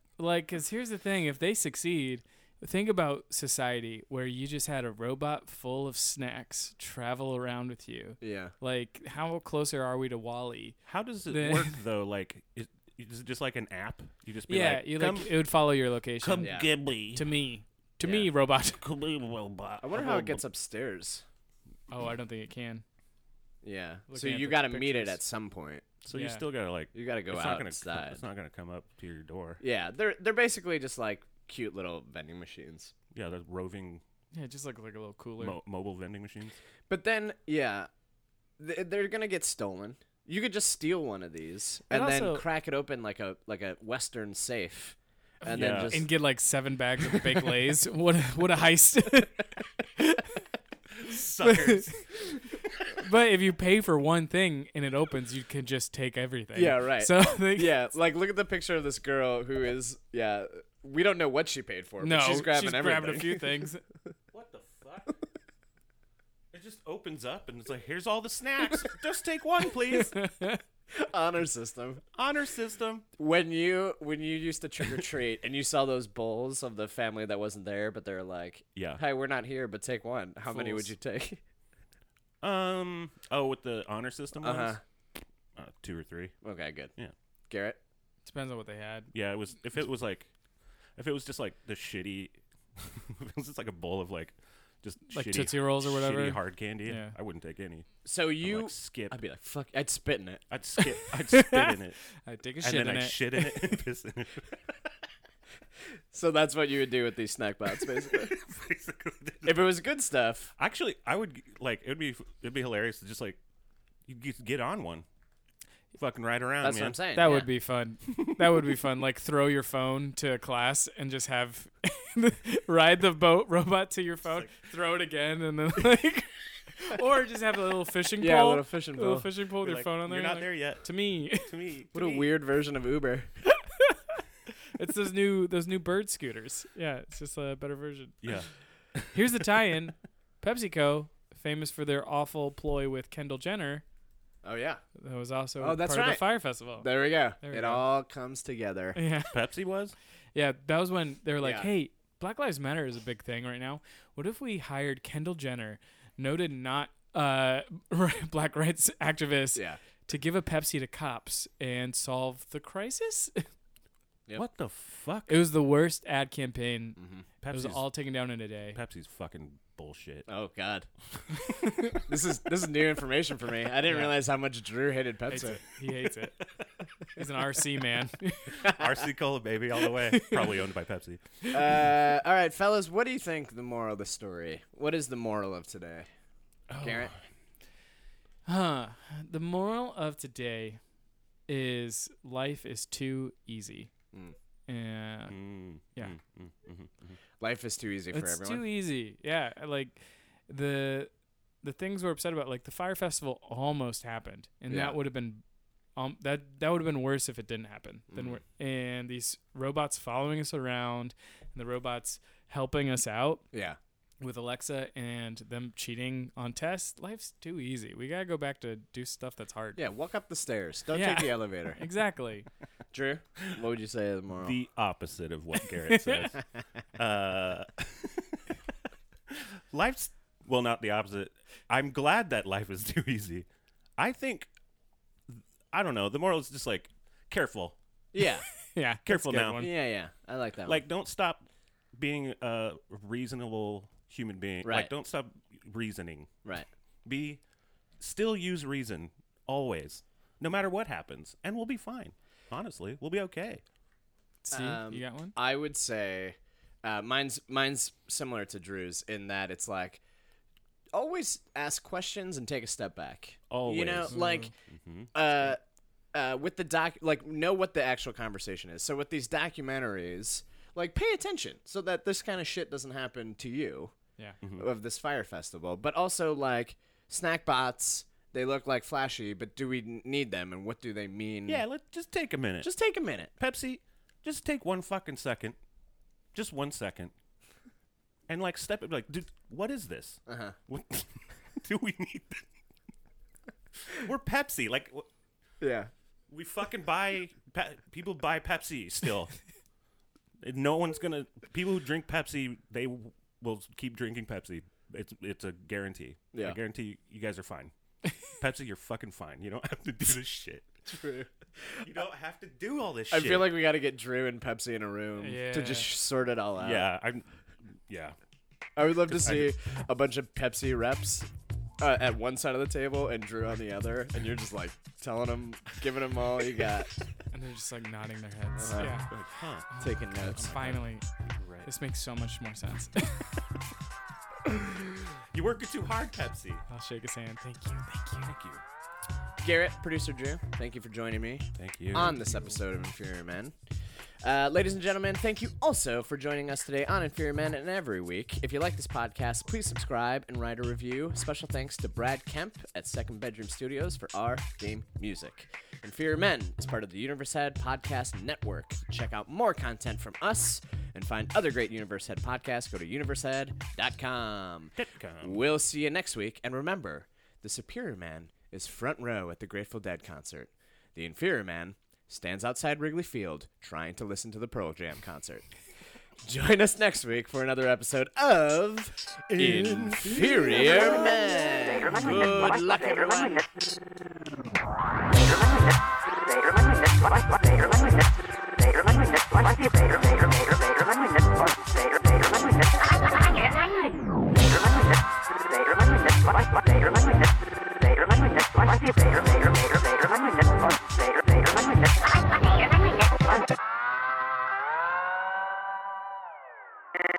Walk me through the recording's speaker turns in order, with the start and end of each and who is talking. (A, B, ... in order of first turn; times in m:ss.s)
0:00.2-0:11.8 A
0:08.2-0:08.5 B
0:10.9-0:15.4 C
0:14.5-0:16.6 A
0:16.2-0:17.2 C
0:16.4-0:16.7 B
0:17.1-0:18.8 A
0:18.0-0:18.3 B
0:18.8-0:20.4 C
0:19.8-0:21.2 B
0:21.9-0:22.8 A
0:23.6-0:25.8 B
0:24.1-0:25.2 A
0:26.0-0:29.6 C
0:26.1-0:26.4 A
0:26.9-0:28.2 B
0:29.6-0:32.9 B
0:33.1-0:34.0 C
0:34.3-0:35.6 A
0:35.4-0:36.6 C
0:36.9-0:37.9 B
0:38.6-0:46.1 B
0:41.9-0:42.4 A
0:45.4-0:50.4 A
0:45.5-0:46.1 C
0:50.9-0:52.1 C
0:51.4-0:52.0 A
0:52.9-0:57.8 A
0:56.5-1:03.6 B
1:02.0-1:03.8 A
1:04.3-1:05.1 C
1:06.5-1:10.2 C
1:09.9-1:10.6 A
1:10.9-1:12.0 B
1:12.2-1:13.0 C
1:13.2-1:21.4 B
1:18.8-1:19.0 C
1:20.5-1:20.9 A
1:22.4-1:24.8 C
1:24.4-1:24.8 B
1:25.6-1:26.4 C
1:26.4-1:26.9 B
1:27.5-1:27.8 B
1:28.2-1:29.1 A
1:29.1-1:30.3 C
1:31.0-1:39.2 C
1:35.1-1:37.1 A
1:38.0-1:40.4 B
1:40.5-1:42.0 C
1:41.3-1:43.7 A
1:42.6-1:44.6 C
1:46.1-1:48.4 B
1:47.9-1:49.7 C
1:49.4-1:50.5 B
1:50.6-1:53.4 C
1:54.1-1:55.1 C
1:56.0-1:57.4 C
1:56.6-1:57.5 B
1:57.2-2:11.5 A
2:08.2-2:09.3 B
2:09.6-2:12.3 C
2:11.9-2:13.3 B
2:13.5-2:14.2 A
2:14.8-2:18.2 A
2:18.2-2:19.2 C
2:19.1-2:23.8 A
2:24.4-2:24.8 B
2:25.0-2:26.9 A
2:25.6-2:29.0 B
2:27.4-2:27.8 A
2:29.0-2:29.4 A
2:29.3-2:30.0 C
2:30.4-2:43.5 A
2:31.4-2:31.7 B
2:39.6-2:39.8 B
2:44.4-2:45.4 C
2:45.3-2:48.8 A
2:47.0-2:47.3 B
2:47.4-2:47.9 C
2:48.8-2:50.3 C
2:50.3-2:50.9 B
2:51.4-2:52.0 A
2:51.9-2:55.6 B
2:53.9-2:54.2 A
2:55.3-2:56.4 A
2:57.1-2:58.7 A
2:58.6-2:58.9 B
2:58.8-3:01.8 C
3:00.1-3:00.4 A
3:01.5-3:06.1 B
3:06.7-3:07.2 C
3:06.8-3:07.1 B
3:08.5-3:10.8 A
3:11.5-3:13.9 A
3:14.7-3:15.4 A
3:15.3-3:17.2 C
3:17.4-3:18.6 B
3:18.1-3:21.1 A
3:21.6-3:25.4 A
3:24.7-3:25.0 B
3:26.0-3:33.4 A
3:28.1-3:28.4 B
3:33.5-3:33.8 B
3:34.2-3:39.8 A
3:39.8-3:41.8 B
3:40.9-3:42.5 A
3:42.9-3:44.6 B
3:44.4-3:46.4 C
3:45.8-3:46.3 A
3:47.0-3:48.6 C
3:49.3-3:53.5 C
3:54.0-3:54.5 C
3:55.3-3:57.8 C
3:58.1-3:58.5 B
3:58.6-3:59.7 A
3:59.0-3:59.7 C
3:59.6-4:00.8 B
4:00.6-4:01.4 C
4:02.0-4:06.3 C
4:04.6-4:04.9 B
4:07.0-4:07.4 C
4:08.0-4:13.6 C
4:14.4-4:15.4 A
4:14.5-4:20.0 B
4:20.9-4:24.5 B
4:23.5-4:24.1 C
4:24.1-4:24.5 A
4:24.7-4:25.1 C
4:25.1-4:25.6 B
4:26.1-4:33.9 B
4:34.4-4:34.7 C
4:34.6-4:41.6 B
4:41.5-4:42.7 C
4:42.6-4:43.3 B
4:43.4-4:45.6 C
4:46.3-4:47.1 C
4:48.3-4:52.5 C
4:50.3-4:50.6 B
4:53.9-4:55.1 C
4:55.6-4:55.9 B
4:56.3-4:59.3 C
5:00.4-5:07.7 C
5:08.3-5:10.7 C
5:10.9-5:11.3 B
5:11.8-5:13.6 C
5:13.1-5:16.9 B
5:15.2-5:15.9 A
5:16.6-5:18.2 C
5:18.8-5:21.3 B
5:19.1-5:19.5 C
5:21.8-5:26.9 B
5:27.3-5:29.1 A
5:28.6-5:29.0 B
5:29.1-5:29.7 C
5:29.8-5:30.6 B
5:29.8-5:31.1 A
5:30.4-5:30.8 C
5:31.4-5:31.7 C
5:31.6-5:33.4 A
5:35.2-5:36.6 C
5:36.7-5:38.3 A
5:38.2-5:38.6 C
5:39.4-5:43.5 B
5:41.6-5:42.2 C
5:44.2-6:15.4 B
6:04.8-6:05.4 C
6:16.2-6:23.5 B
6:19.3-6:22.6 C